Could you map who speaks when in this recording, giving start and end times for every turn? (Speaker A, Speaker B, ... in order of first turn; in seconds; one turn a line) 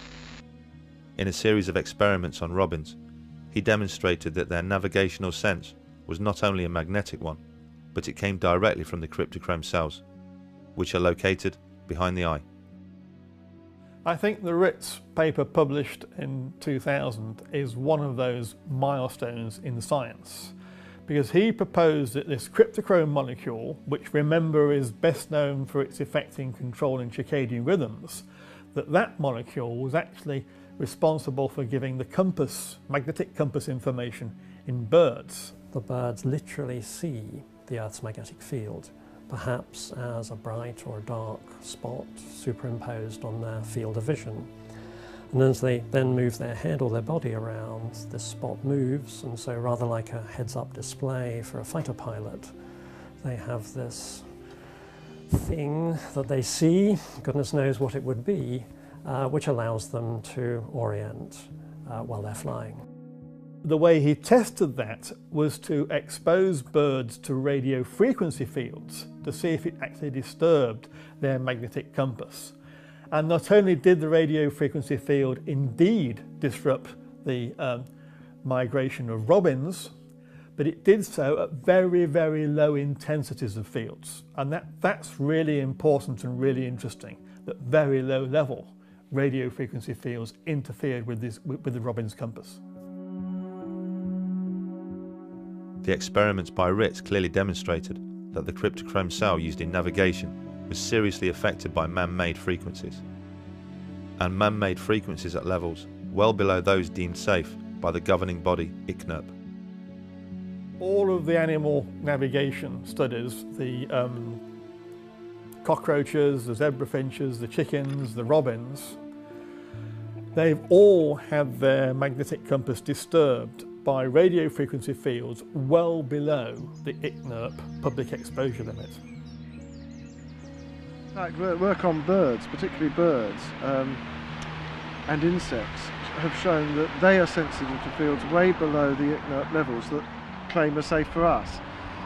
Speaker A: 1.1-3.0
Speaker A: 3.5-7.4
Speaker A: 7.9-10.0
Speaker A: 10.8-12.4
Speaker B: 14.0-20.5
Speaker B: 21.1-35.6
Speaker C: 35.7-54.7
Speaker C: 55.3-62.9
Speaker B: 63.6-72.5
Speaker B: 73.1-77.9
Speaker B: 78.4-79.9
Speaker B: 80.6-92.6
Speaker A: 95.8-103.0
Speaker A: 104.2-109.3
Speaker B: 110.8-114.4
Speaker B: 115.6-119.0
Speaker B: 120.3-129.0
Speaker D: 131.1-134.0
Speaker D: 135.1-141.6